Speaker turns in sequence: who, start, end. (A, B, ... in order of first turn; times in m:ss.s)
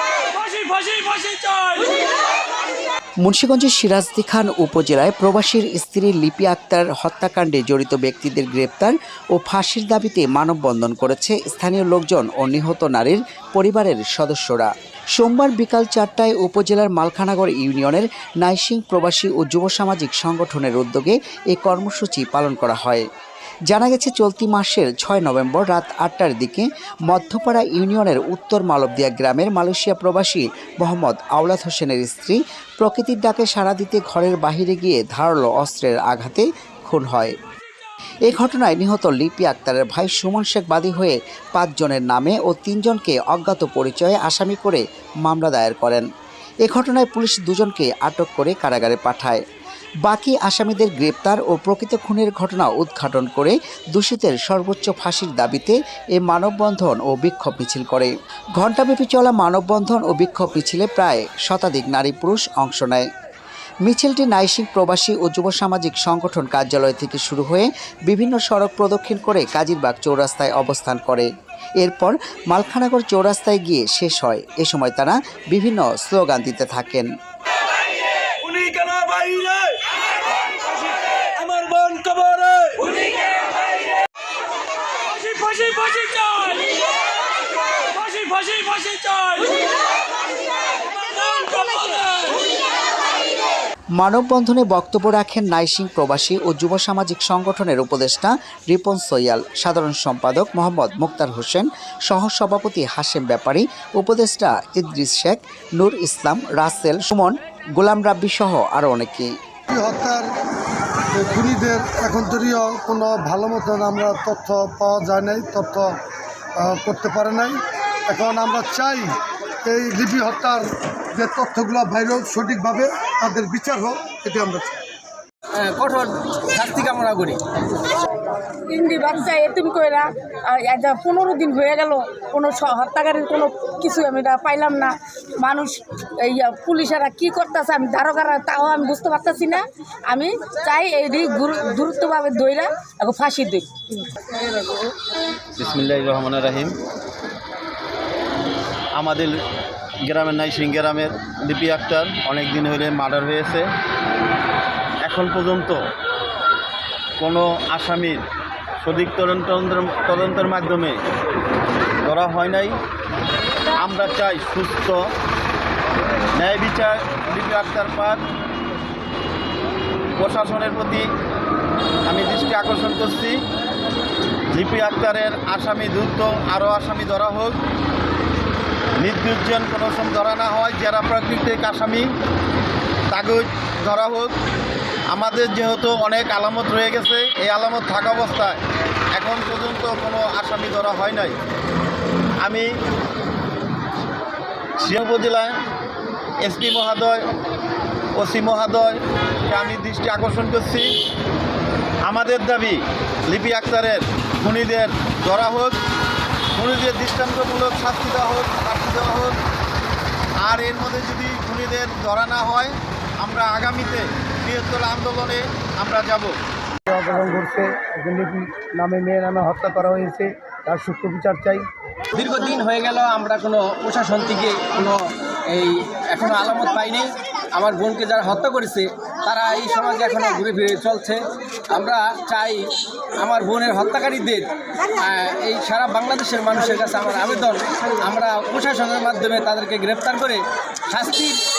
0:00.3-0:02.0 A
0:03.2-0:23.1 B
0:23.7-0:37.3 B
0:38.3-0:46.0 B
0:46.6-0:49.4 B
0:50.0-1:03.1 B
1:03.8-1:11.3 B
1:11.8-1:17.1 B
1:18.2-1:20.0 A
1:21.0-1:23.9 A
1:25.1-1:26.9 A
1:27.9-1:29.7 A
1:30.9-1:32.4 A
1:34.0-1:49.3 B
1:49.7-1:50.3 C
1:51.1-1:55.9 C
1:56.6-1:59.1 C
1:59.6-2:04.8 C
2:05.6-2:07.4 D
2:08.7-2:24.3 E
2:25.6-2:26.8 F
2:29.0-2:29.4 F
2:30.1-2:33.6 F
2:35.0-2:35.8 F
2:37.2-2:38.2 F
2:38.8-2:41.0 F
2:42.0-2:42.8 F
2:43.8-2:45.0 F
2:46.4-2:48.2 F
2:50.2-2:51.1 F
2:52.1-2:53.4 F
2:54.5-2:57.6 F
2:59.0-3:02.1 F
3:03.1-3:04.4 F
3:05.1-3:08.6 F
3:09.2-3:11.4 F
3:12.4-3:12.7 F
3:14.8-3:15.6 F
3:16.4-3:17.3 F
3:18.2-3:21.0 F
3:22.0-3:25.8 F
3:26.6-3:29.4 F
3:30.4-3:36.4 F
3:36.9-3:41.7 G
3:42.1-4:01.4 D